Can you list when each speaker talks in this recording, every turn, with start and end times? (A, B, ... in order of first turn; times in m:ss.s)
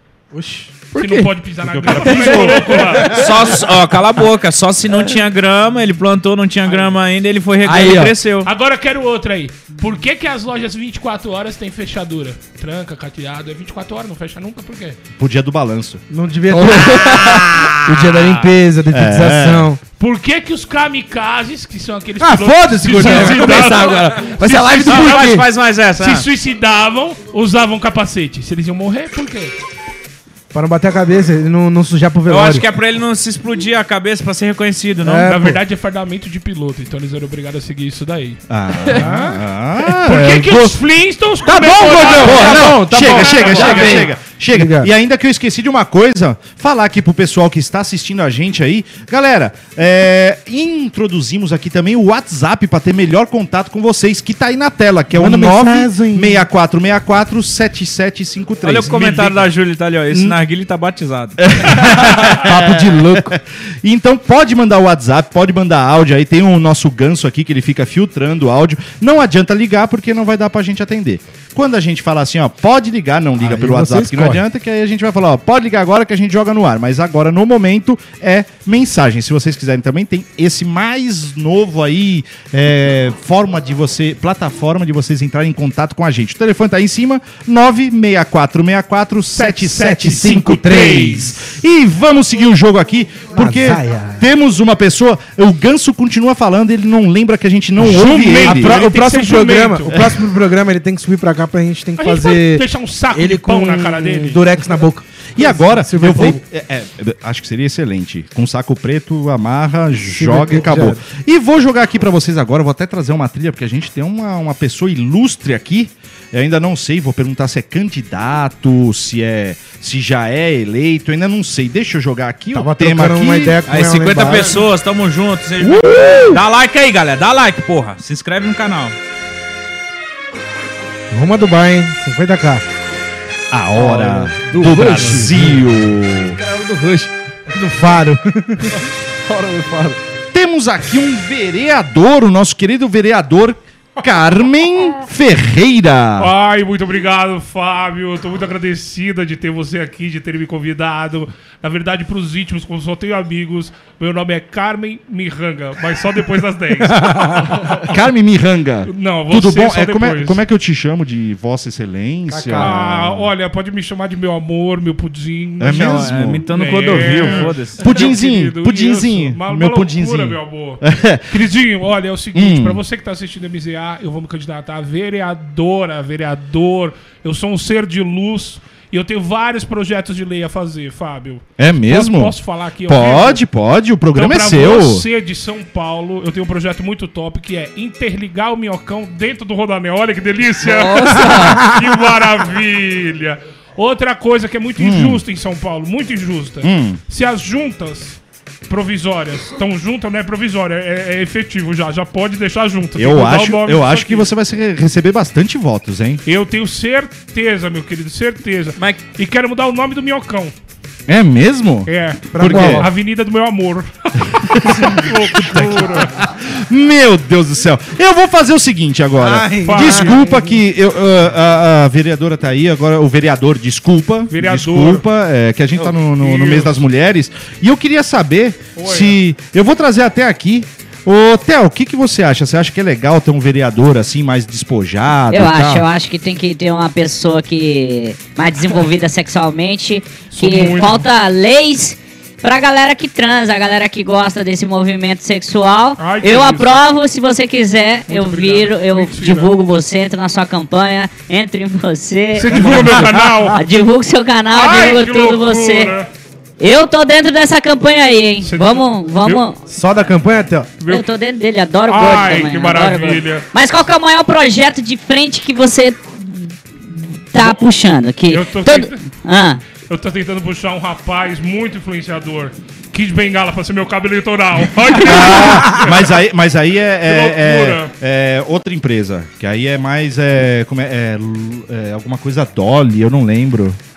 0:00.3-0:00.8 A
0:00.9-0:01.3 B
0:01.0-0:03.2 C
0:01.7-0:02.8 D
0:01.8-0:03.2 B
0:03.1-0:08.5 E
0:07.6-0:08.1 B
0:08.4-0:15.0 C
0:15.2-0:16.0 D
0:16.1-0:19.8 A
0:16.5-0:17.7 B
0:18.9-0:19.7 D
0:20.0-0:25.4 C
0:22.2-0:23.7 A
0:23.0-0:25.4 B
0:24.8-0:26.3 E
0:25.9-0:29.5 C
0:30.5-0:32.6 A
0:32.3-0:35.3 E
0:35.0-0:35.6 A
0:35.2-0:38.4 C
0:38.5-0:40.8 D
0:38.9-0:44.1 C
0:41.4-0:44.9 A
0:42.0-0:59.5 D
0:42.7-0:44.0 B
0:55.1-0:56.4 A
0:58.6-1:01.4 E
1:00.1-1:00.4 D
1:01.4-1:38.8 D
1:02.3-1:03.4 A
1:13.4-1:14.4 A
1:29.3-1:31.3 C
1:30.0-1:31.4 A
1:33.4-1:34.2 A
1:37.8-1:40.0 C
1:37.8-1:46.4 A
1:42.0-1:44.4 C
1:45.3-2:03.6 D
1:50.0-1:51.0 A
2:02.5-2:04.6 A
2:03.6-2:09.0 E
2:05.6-2:06.4 A
2:11.1-2:12.6 A
2:13.5-2:16.4 D
2:13.8-2:15.6 B
2:13.9-2:15.6 A
2:16.4-2:17.1 B
2:17.5-2:18.8 A
2:19.2-2:20.0 B
2:20.3-2:26.3 D
2:26.2-2:37.9 C
2:37.8-2:43.3 D
2:38.8-2:40.4 C
2:42.3-2:42.8 A
2:42.5-3:03.4 C
2:45.6-2:46.4 D
2:45.7-2:48.1 E
2:47.0-2:51.4 D
2:52.3-2:52.8 D
3:01.6-3:05.0 D
3:04.1-3:24.3 C
3:10.6-3:11.7 B
3:14.8-3:15.2 D
3:16.6-3:17.0 D
3:23.0-3:26.2 D
3:26.2-3:30.5 C
3:31.1-3:32.9 D
3:31.8-3:36.2 C
3:32.3-3:32.9 A
3:34.5-3:55.8 D
3:35.5-3:35.8 A
3:39.2-3:40.5 A
3:39.6-3:40.2 C
3:44.3-3:45.0 C
3:45.9-3:46.8 C
3:48.8-3:49.1 C
3:55.3-4:15.9 F
4:00.3-4:01.0 C
4:06.0-4:06.8 C
4:08.1-4:09.5 C
4:12.3-4:13.6 C
4:12.6-4:13.3 A
4:14.5-4:16.1 C
4:16.6-4:19.6 F
4:18.4-4:19.4 C
4:19.7-4:20.8 A
4:20.8-4:29.6 F
4:21.9-4:23.5 C
4:28.3-4:29.0 C
4:29.7-4:36.1 C
4:35.0-4:43.8 D
4:37.0-4:37.9 C